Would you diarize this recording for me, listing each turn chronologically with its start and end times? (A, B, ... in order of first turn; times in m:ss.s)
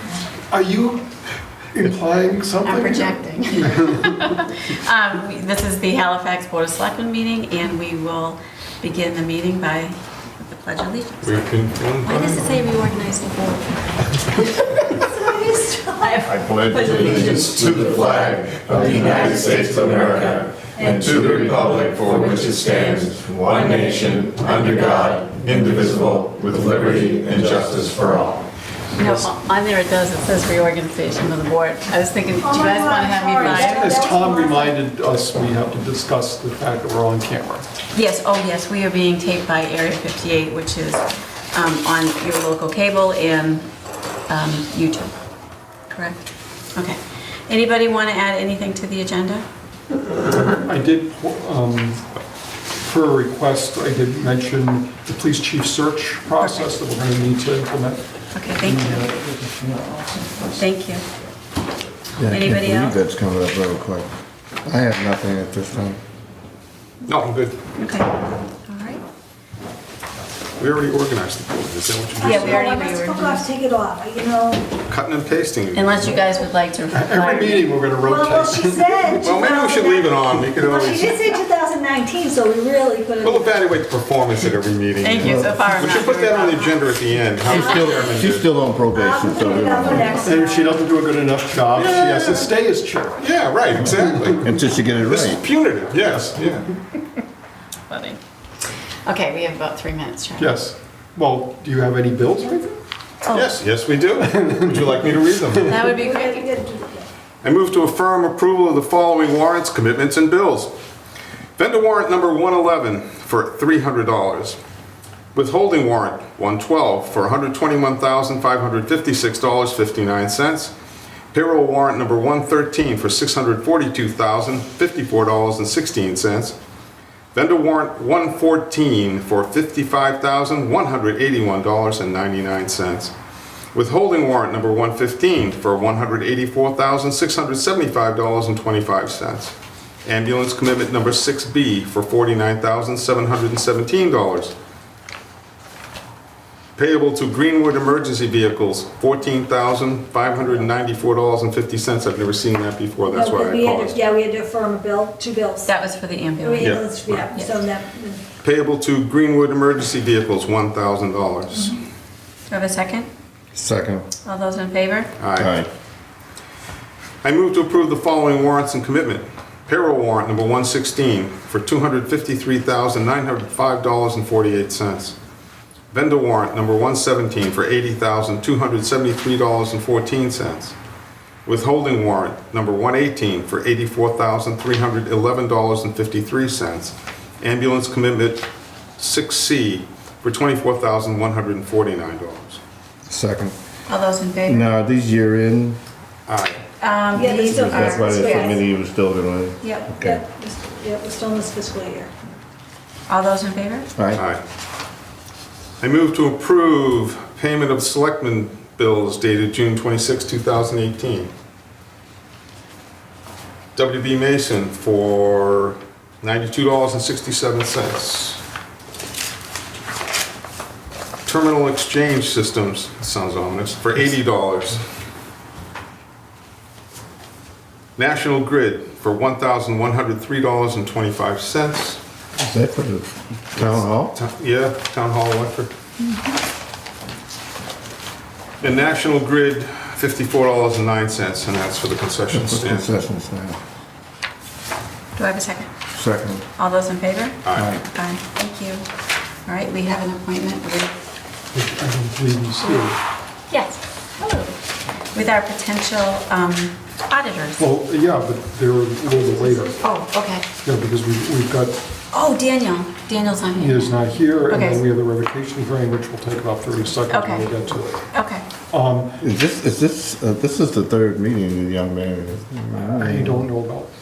0:00.5-0:01.1 A
0:01.7-0:04.4 A
0:02.6-0:11.5 B
0:11.2-0:12.6 C
0:12.2-0:13.5 B
0:14.8-0:16.4 D
0:16.2-0:24.9 E
0:16.7-0:17.7 B
0:16.9-0:28.4 F
0:20.8-0:21.2 D
0:25.4-0:26.0 C
0:25.6-0:28.0 E
0:29.0-0:34.0 B
0:32.4-0:34.8 D
0:33.4-0:37.7 A
0:37.9-0:43.7 B
0:44.3-0:45.1 B
0:45.9-0:46.2 B
0:46.8-0:49.4 B
0:50.2-0:52.0 A
0:52.8-0:58.0 A
0:58.3-0:59.1 B
0:58.6-1:00.6 A
1:00.6-1:01.0 B
1:02.2-1:04.1 E
1:02.3-1:03.0 B
1:04.6-1:06.0 E
1:07.0-1:07.6 C
1:07.8-1:08.1 B
1:08.7-1:09.0 B
1:10.6-1:12.6 C
1:12.2-1:14.7 D
1:12.2-1:13.5 B
1:14.9-1:16.2 C
1:15.7-1:17.7 B
1:16.9-1:19.3 A
1:18.0-1:23.5 D
1:19.2-1:21.4 C
1:23.2-1:28.5 C
1:25.0-1:26.7 B
1:25.2-1:25.5 E
1:27.5-1:30.3 E
1:28.9-1:30.9 D
1:30.2-1:33.2 A
1:31.7-1:32.6 C
1:33.2-1:36.7 C
1:34.4-1:35.4 E
1:37.9-1:38.2 B
1:39.0-1:40.5 B
1:40.4-1:42.8 A
1:43.2-1:43.5 B
1:43.3-1:45.7 C
1:44.2-1:44.9 A
1:45.7-1:46.5 B
1:45.8-1:47.1 D
1:47.4-1:50.7 C
1:51.6-1:54.6 C
1:55.3-2:00.7 C
2:01.3-2:06.6 C
2:07.3-2:13.1 C
2:13.7-2:24.5 C
2:26.8-2:34.0 C
2:33.1-2:35.7 D
2:35.7-2:37.5 B
2:36.4-2:38.2 D
2:36.6-2:37.3 C
2:38.4-2:41.8 C
2:42.5-2:43.1 B
2:43.5-2:44.1 E
2:44.2-2:45.1 B
2:45.2-2:45.6 C
2:45.4-2:45.7 E
2:47.2-2:55.2 C
2:55.9-3:00.8 C
3:01.5-3:08.5 C
3:09.0-3:12.6 C
3:13.1-3:13.6 E
3:13.9-3:14.7 B
3:14.5-3:15.8 E
3:16.3-3:16.6 C
3:16.8-3:18.6 B
3:17.1-3:18.6 D
3:17.3-3:20.2 E
3:19.6-3:22.1 D
3:23.1-3:23.9 B
3:24.0-3:24.2 E
3:24.1-3:24.4 C
3:25.8-3:31.3 C
3:33.8-3:38.4 C
3:41.3-3:44.8 C
3:48.0-3:52.0 C
3:52.4-3:54.2 E
3:53.6-3:55.7 C
3:58.6-4:03.0 C
4:02.3-4:03.6 E
4:05.2-4:05.7 B
4:05.9-4:06.4 E
4:06.6-4:08.8 B
4:07.4-4:07.7 C
4:07.5-4:07.8 E
4:09.5-4:10.9 B
4:11.5-4:13.0 A
4:13.5-4:14.5 B
4:15.1-4:17.6 B
4:17.6-4:19.8 A
4:19.1-4:19.8 D
4:19.8-4:20.4 B
4:20.6-4:21.8 A
4:22.1-4:24.8 B
4:23.6-4:28.1 A
4:27.1-4:27.5 B
4:28.1-4:28.5 B
4:28.7-4:29.2 A
4:29.2-4:33.5 E
4:32.7-4:33.9 A